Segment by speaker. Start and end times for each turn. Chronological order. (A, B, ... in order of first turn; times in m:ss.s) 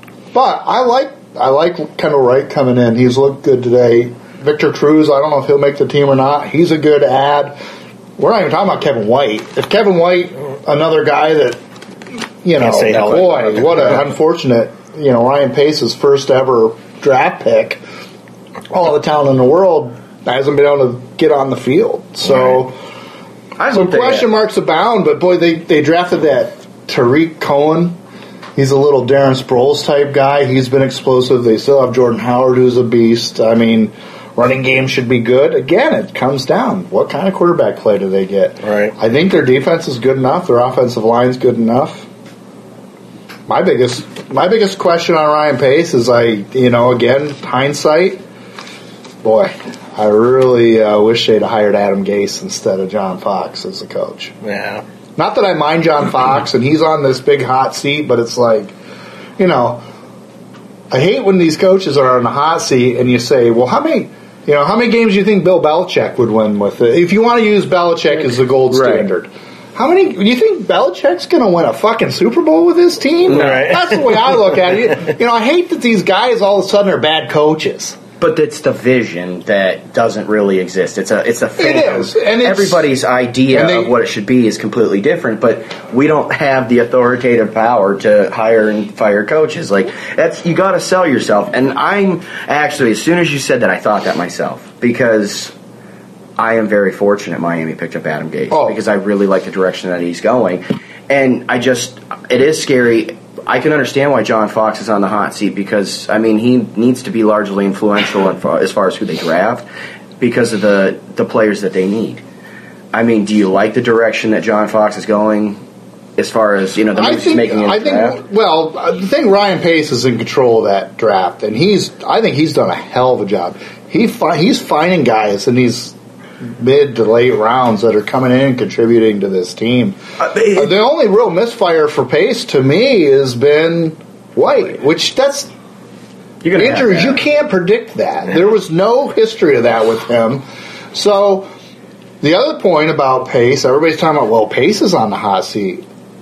0:00.3-0:07.6 A
0:08.2-0:11.6 A
0:12.4-0:17.8 A
0:12.6-0:14.0 B
0:18.7-0:22.8 A
0:23.6-0:24.2 C
0:23.7-0:28.0 A
0:28.6-0:42.1 A
0:38.6-0:38.9 B
0:43.5-0:48.2 A
0:49.2-0:54.3 A
0:54.4-0:54.8 B
0:55.2-0:58.7 A
0:59.4-0:59.8 A
1:00.9-1:18.0 A
1:08.7-1:09.1 C
1:13.3-1:13.7 C
1:13.3-1:14.2 B
1:18.2-1:35.5 C
1:21.6-1:22.9 A
1:23.5-1:23.9 A
1:36.4-1:49.6 C
1:38.5-1:38.8 A
1:50.2-1:52.2 C
1:52.9-1:55.6 C
1:56.2-1:58.2 C
1:56.9-2:10.0 A
2:10.2-2:10.7 C
2:10.5-2:15.5 A
2:16.4-2:17.2 C
2:16.5-2:21.5 A
2:22.2-2:25.8 A